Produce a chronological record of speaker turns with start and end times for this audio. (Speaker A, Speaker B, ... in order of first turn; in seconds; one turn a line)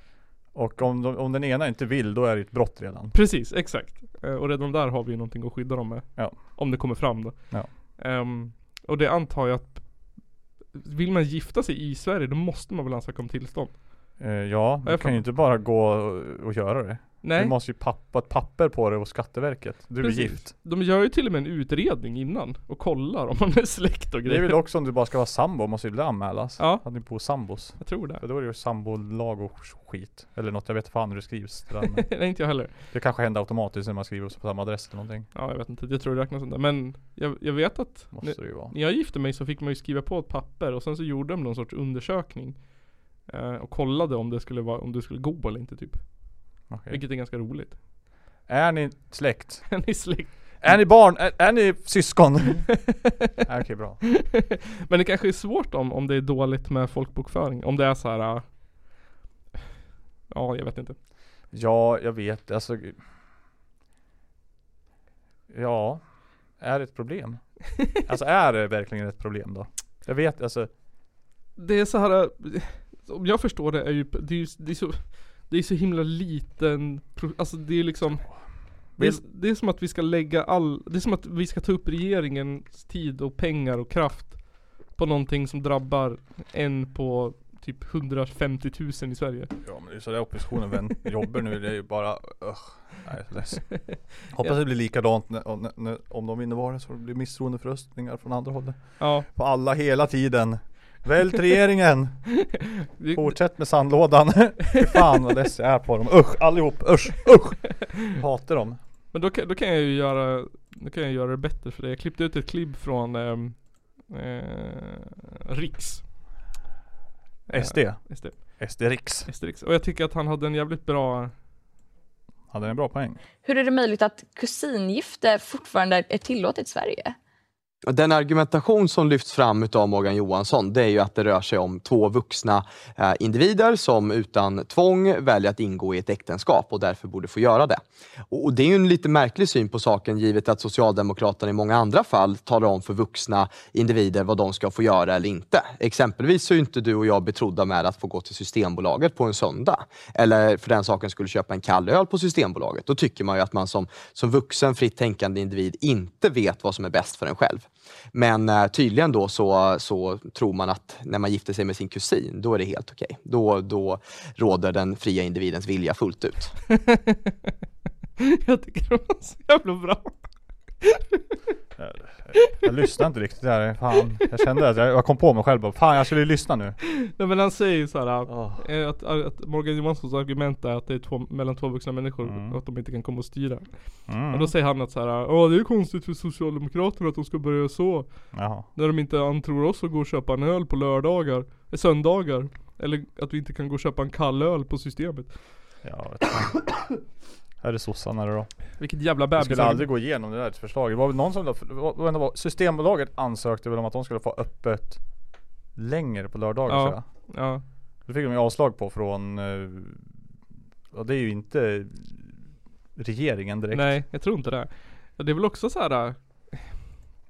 Speaker A: 0.5-3.1
Speaker B: 3.1-14.2
Speaker A: 6.2-6.9
Speaker A: 14.2-20.5
Speaker B: 14.8-15.2
Speaker B: 17.2-17.6
Speaker B: 20.0-24.6
Speaker A: 24.2-32.1
Speaker B: 26.6-28.2
Speaker B: 31.9-32.8
Speaker A: 32.9-35.3
Speaker B: 35.3-47.8
Speaker A: 38.1-38.7
Speaker A: 46.7-47.0
Speaker A: 48.5-49.9
Speaker B: 49.7-50.8
Speaker A: 50.6-52.9
Speaker A: 53.4-54.0
Speaker B: 54.2-58.7
Speaker B: 60.3-61.0
Speaker A: 61.5-63.0
Speaker A: 65.5-70.7
Speaker B: 71.6-89.5
Speaker A: 78.2-79.2
Speaker A: 89.6-102.5
Speaker B: 93.9-94.6
Speaker B: 99.0-99.3
Speaker B: 103.0-103.5
Speaker A: 103.1-108.8
Speaker B: 109.1-116.1
Speaker B: 117.5-121.3
Speaker A: 117.5-119.3
Speaker A: 122.5-123.2
Speaker C: 123.4-127.2
Speaker D: 127.9-166.5
Speaker B: 166.8-167.3
Speaker B: 168.2-170.2
Speaker A: 171.8-176.8
Speaker B: 176.8-195.4
Speaker A: 178.3-178.7
Speaker A: 182.2-182.6
Speaker A: 184.1-184.5
Speaker A: 188.3-188.7
Speaker A: 195.8-197.0
Speaker A: 197.6-207.3
Speaker B: 198.8-199.9
Speaker B: 206.7-207.6
Speaker A: 208.1-210.2
Speaker A: 210.9-214.0
Speaker B: 213.7-216.8